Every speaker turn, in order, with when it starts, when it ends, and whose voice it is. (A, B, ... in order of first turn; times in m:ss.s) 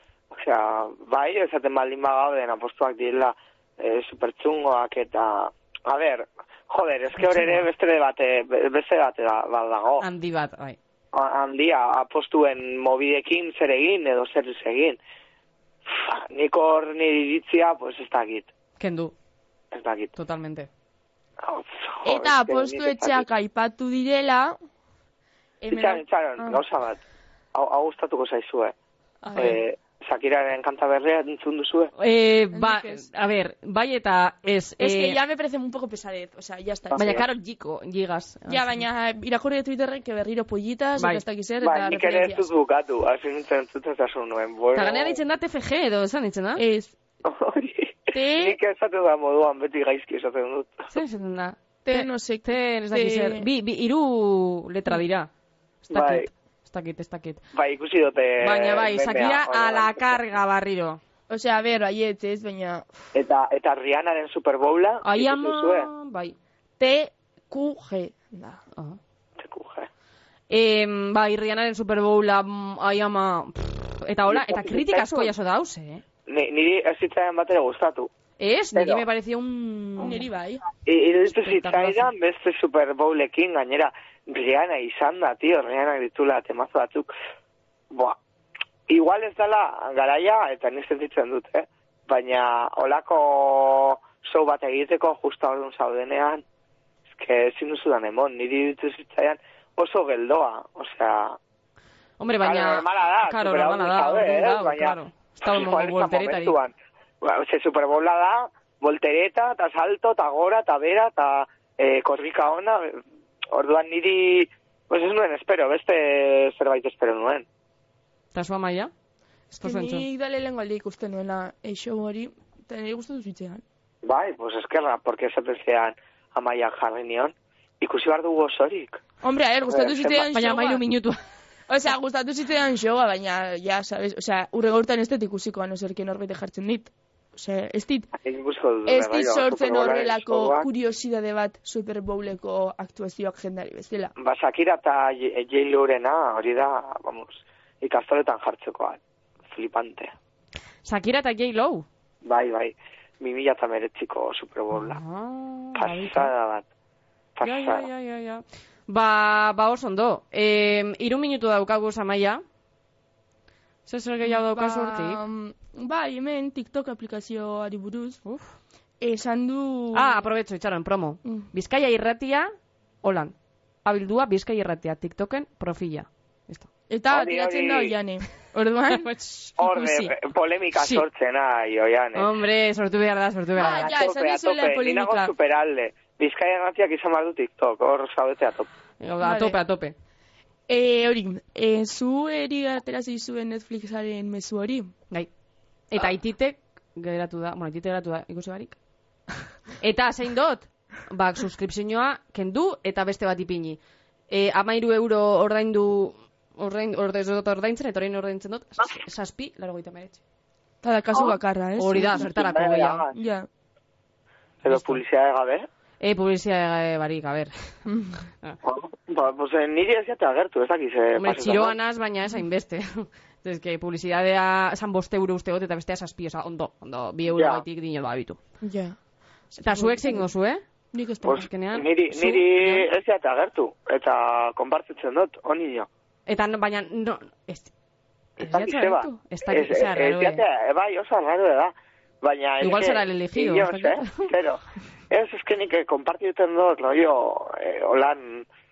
0:00.3-0:10.0 A
0:07.2-0:07.6 B
0:10.0-0:10.8 B
0:11.1-0:15.0 A
0:15.8-0:18.5 A
0:18.8-0:19.1 B
0:19.7-0:20.1 A
0:20.2-0:20.7 B
0:21.4-0:23.2 A
0:22.0-0:24.6 C
0:25.6-0:26.6 C
0:25.7-0:27.0 A
0:27.5-0:28.7 A
0:29.2-0:29.5 B
0:29.2-0:29.6 C
0:29.4-0:31.9 A
0:32.0-0:35.2 B
0:32.5-0:33.0 C
0:34.8-0:37.2 C
0:36.9-0:37.2 A
0:37.0-0:38.8 B
0:38.5-0:42.5 C
0:41.6-0:45.2 A
0:44.7-0:46.6 B
0:46.6-0:47.0 C
0:47.2-0:50.9 A
0:48.1-0:48.6 C
0:50.9-0:55.3 B
0:51.8-0:53.5 C
0:55.8-0:57.4 B
0:55.9-0:56.3 A
0:57.5-1:00.2 A
0:58.4-1:01.0 B
1:01.3-1:02.9 C
1:03.1-1:05.9 A
1:05.0-1:06.4 B
1:06.8-1:08.6 C
1:09.4-1:09.9 A
1:10.5-1:16.0 B
1:14.3-1:15.3 A
1:16.3-1:18.1 A
1:18.4-1:20.2 B
1:18.7-1:19.0 A
1:20.0-1:20.6 C
1:20.8-1:27.1 A
1:21.2-1:22.1 B
1:27.9-1:28.2 A
1:28.9-1:36.4 A
1:37.1-1:41.4 A
1:42.2-1:46.5 B
1:42.4-1:57.5 A
1:58.3-1:58.9 B
1:59.5-2:00.0 B
1:59.6-2:03.6 C
2:04.0-2:09.0 A
2:09.2-2:10.8 C
2:09.7-2:10.2 A
2:10.3-2:11.2 B
2:11.7-2:18.1 C
2:18.2-2:20.7 A
2:18.8-2:24.1 C
2:24.2-2:30.1 A
2:30.8-2:31.8 B
2:32.2-2:35.0 A
2:34.7-2:36.3 B
2:35.7-2:36.6 A
2:37.3-2:37.9 A
2:37.4-2:42.4 B
2:43.8-2:45.2 B
2:44.2-2:48.2 C
2:49.0-2:50.2 C
2:49.9-2:52.5 B
2:53.0-2:56.7 B
2:56.9-2:59.1 C
2:57.1-2:58.0 A
2:58.9-2:59.5 B
2:59.6-3:02.3 A
2:59.6-3:00.1 C
3:00.8-3:01.0 B
3:02.2-3:03.9 B
3:03.6-3:05.3 C
3:03.6-3:08.7 A
3:09.0-3:09.9 B
3:09.2-3:09.6 C
3:10.7-3:14.9 C
3:15.9-3:18.8 B
3:19.8-3:23.8 B
3:24.3-3:30.2 B
3:30.8-3:32.3 C
3:31.8-3:33.0 B
3:32.2-3:33.1 A
3:33.1-3:33.5 C
3:34.6-3:35.7 A
3:34.6-3:35.0 B
3:36.0-3:37.7 B
3:37.9-3:38.2 C
3:38.6-3:41.8 A
3:41.1-3:48.4 B
3:47.3-3:47.6 A
3:48.6-3:49.0 C
3:49.5-3:50.3 C
3:49.6-3:50.6 B
3:50.9-3:51.5 C
3:51.2-3:55.9 A
3:51.2-3:52.9 B
3:56.3-3:57.7 B
3:58.4-4:00.4 B
3:58.4-4:08.5 A
4:02.6-4:04.3 B